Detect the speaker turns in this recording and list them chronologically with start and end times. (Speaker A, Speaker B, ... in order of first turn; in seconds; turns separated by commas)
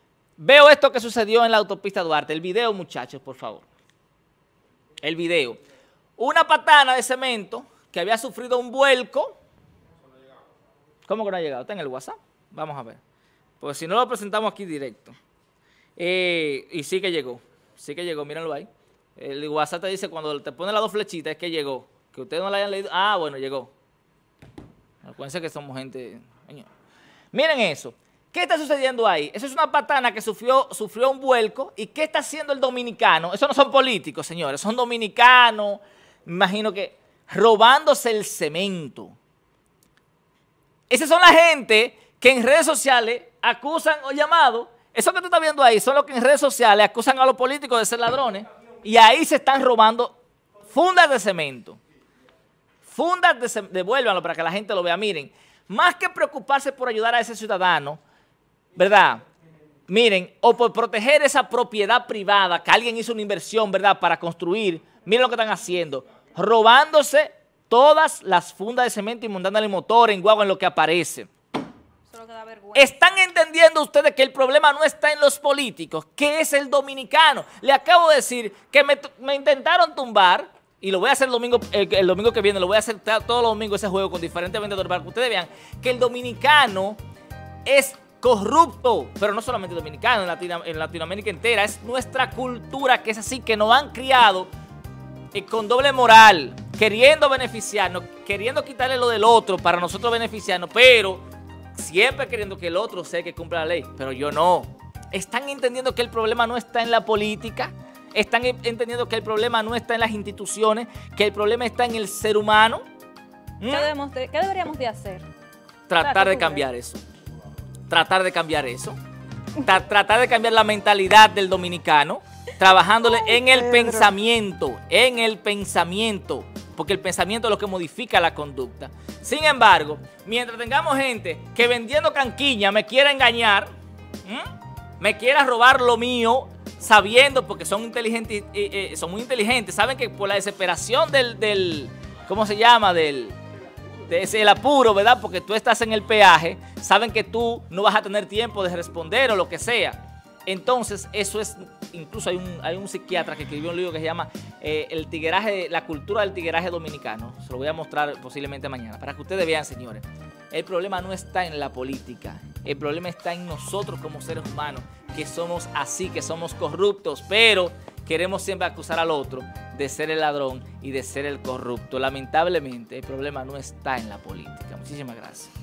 Speaker A: 0.4-3.6, Speaker A: 5.0-5.6, Speaker A: 6.2-9.3, Speaker A: 11.1-13.0, Speaker A: 13.6-15.2, Speaker A: 16.0-23.7, Speaker A: 25.0-26.7, Speaker A: 27.3-39.1, Speaker A: 40.9-51.8, Speaker A: 52.8-58.0, Speaker A: 58.8-59.2, Speaker A: 59.9-71.3, Speaker B: 72.1-72.9, Speaker A: 72.7-87.0, Speaker A: 87.7-94.5, Speaker A: 95.3-101.2, Speaker A: 101.8-112.8, Speaker A: 113.6-113.9, Speaker B: 113.7-115.2, Speaker A: 115.9-117.0, Speaker B: 116.0-116.6, Speaker A: 117.9-119.0, Speaker A: 119.6-133.7, Speaker A: 134.2-143.4, Speaker A: 144.1-175.5